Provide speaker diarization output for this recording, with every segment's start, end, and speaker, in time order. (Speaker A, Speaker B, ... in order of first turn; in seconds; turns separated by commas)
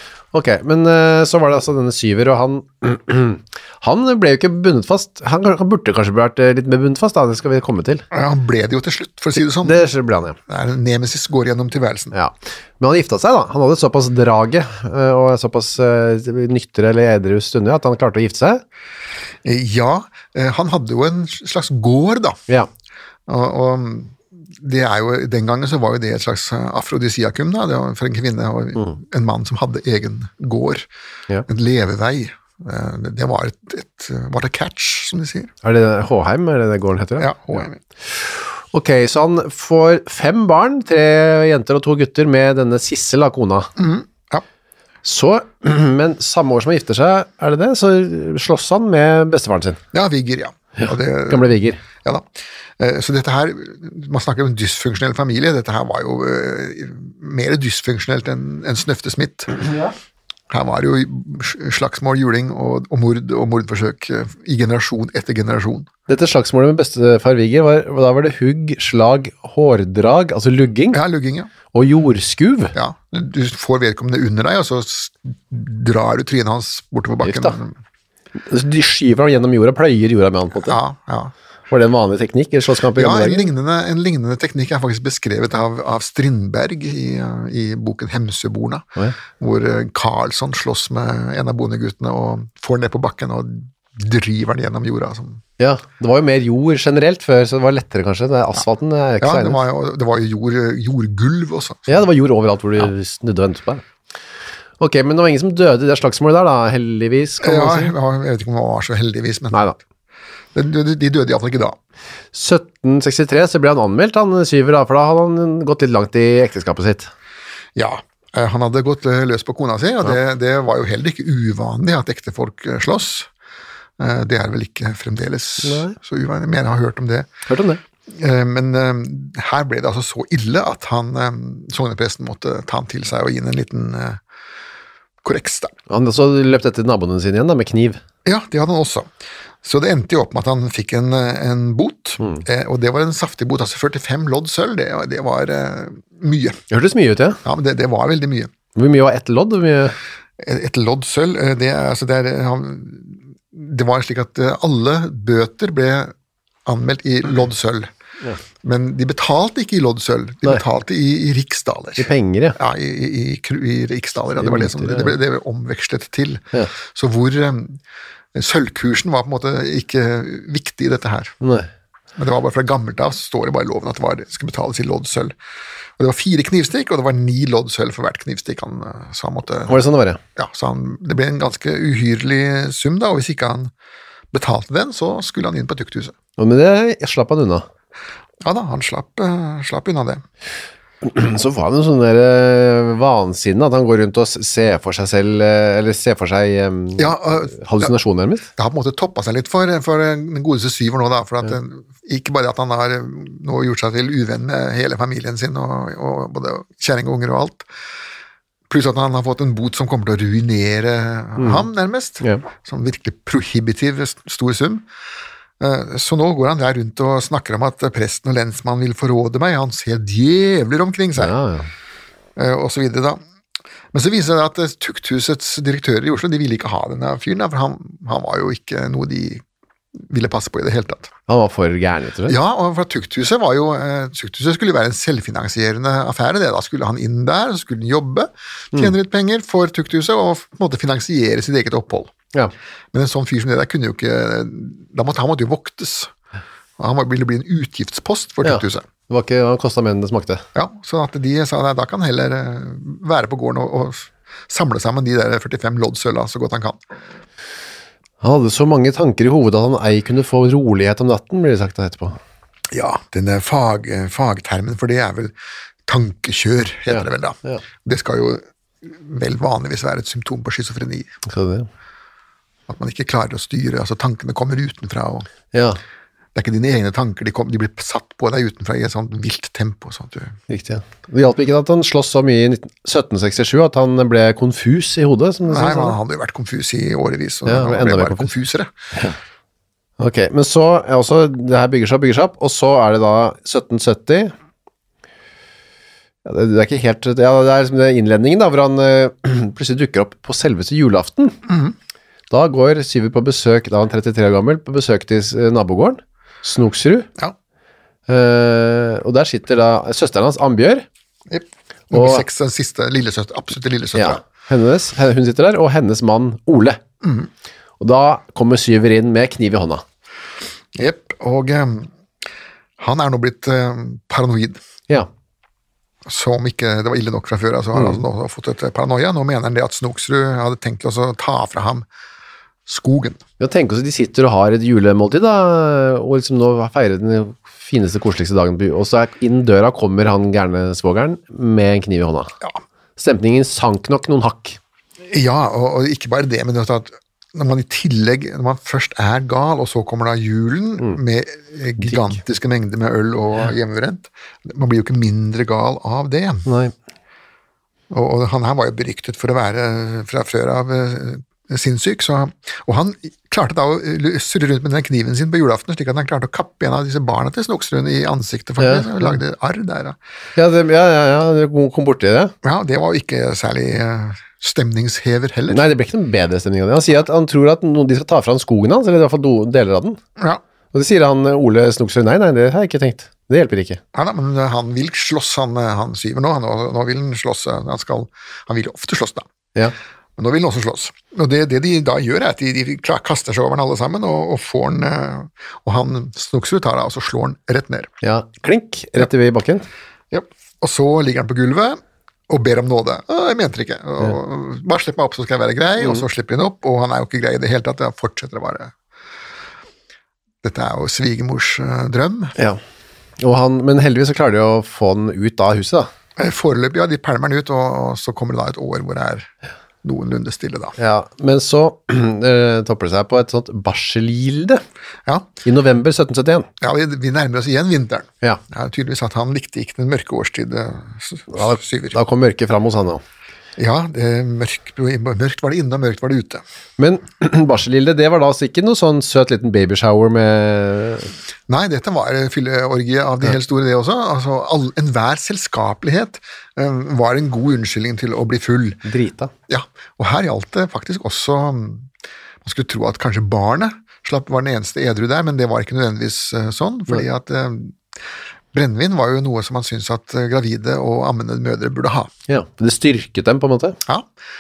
Speaker A: 0.3-8.0, Speaker B: 8.1-9.9, Speaker A: 9.6-10.4, Speaker B: 10.5-12.1, Speaker A: 12.1-18.6, Speaker B: 19.4-22.4, Speaker B: 23.3-30.9, Speaker B: 31.5-35.5, Speaker A: 35.6-43.7, Speaker B: 37.2-37.8, Speaker B: 43.8-44.4, Speaker A: 45.0-49.8, Speaker B: 49.9-59.6, Speaker A: 50.8-51.8, Speaker A: 59.6-59.9, Speaker B: 60.5-65.9, Speaker A: 66.1-71.0, Speaker B: 70.9-71.5, Speaker A: 71.7-72.7, Speaker B: 72.7-77.7, Speaker A: 77.2-77.6, Speaker A: 78.5-80.8, Speaker B: 80.5-81.3, Speaker A: 81.7-83.5, Speaker B: 82.9-95.4, Speaker A: 95.6-99.6, Speaker B: 99.2-102.0, Speaker A: 101.9-103.8, Speaker A: 104.8-107.9, Speaker B: 107.4-109.7, Speaker B: 110.5-111.8, Speaker A: 112.3-117.1, Speaker B: 117.8-123.3, Speaker B: 124.0-127.3, Speaker A: 125.6-125.9, Speaker A: 127.5-127.8, Speaker B: 128.1-134.2, Speaker B: 135.2-135.7, Speaker A: 135.9-138.0, Speaker B: 138.2-139.1, Speaker B: 139.6-146.6, Speaker A: 146.7-147.4, Speaker B: 147.4-148.5, Speaker A: 148.7-150.0, Speaker B: 150.4-156.1, Speaker B: 156.7-157.9, Speaker B: 158.6-167.8, Speaker A: 162.0-162.6, Speaker A: 164.4-165.2, Speaker B: 168.3-171.3, Speaker A: 171.4-171.7, Speaker B: 172.2-175.3, Speaker B: 176.0-179.8, Speaker A: 179.7-180.2, Speaker B: 180.3-183.7, Speaker B: 184.3-186.1, Speaker A: 186.4-187.6, Speaker B: 188.4-190.2, Speaker A: 191.0-198.5, Speaker B: 197.0-197.9, Speaker B: 198.6-207.7, Speaker B: 208.7-214.9, Speaker A: 211.4-211.7, Speaker B: 215.6-221.3, Speaker A: 221.2-221.7, Speaker B: 222.3-223.2, Speaker B: 223.9-229.4, Speaker B: 229.9-231.1, Speaker A: 231.3-232.4, Speaker B: 232.2-242.1, Speaker B: 242.9-246.1, Speaker B: 246.8-248.8, Speaker A: 248.4-250.4, Speaker B: 250.5-256.8, Speaker A: 258.2-262.2, Speaker B: 262.7-265.3, Speaker B: 265.9-271.1, Speaker A: 266.9-267.6, Speaker A: 271.3-271.7, Speaker B: 272.7-275.3, Speaker A: 275.5-275.8, Speaker B: 276.3-280.4, Speaker A: 280.5-286.0, Speaker B: 285.5-288.7, Speaker A: 287.4-288.3, Speaker A: 290.0-294.3, Speaker A: 296.2-301.4, Speaker B: 301.5-301.7, Speaker A: 302.3-307.1, Speaker A: 308.1-310.9, Speaker B: 311.3-314.2, Speaker A: 311.9-312.2, Speaker A: 313.9-316.8, Speaker B: 317.0-317.3, Speaker A: 317.8-319.8, Speaker B: 320.7-321.9, Speaker B: 322.8-324.6, Speaker B: 326.1-331.9, Speaker A: 327.7-328.0, Speaker B: 332.6-333.2, Speaker A: 333.4-342.3, Speaker A: 343.0-344.6, Speaker B: 345.0-356.5, Speaker A: 356.4-356.7, Speaker B: 357.9-370.0, Speaker A: 368.6-369.2, Speaker A: 370.4-372.3, Speaker B: 372.4-375.7, Speaker A: 375.5-380.0, Speaker A: 380.7-383.8, Speaker B: 383.9-389.2, Speaker B: 390.2-397.9, Speaker A: 398.0-399.6, Speaker B: 400.1-408.7, Speaker A: 405.8-406.1, Speaker B: 410.4-412.3, Speaker A: 413.2-415.9, Speaker B: 416.2-419.3, Speaker B: 419.8-420.8, Speaker A: 420.8-424.6, Speaker A: 425.4-426.5, Speaker B: 426.6-432.0, Speaker A: 431.3-433.0, Speaker B: 433.6-436.4, Speaker A: 436.8-441.1, Speaker B: 441.5-448.8, Speaker A: 448.8-449.3, Speaker B: 449.5-451.9, Speaker B: 452.4-457.8, Speaker B: 458.5-462.1, Speaker A: 462.3-463.8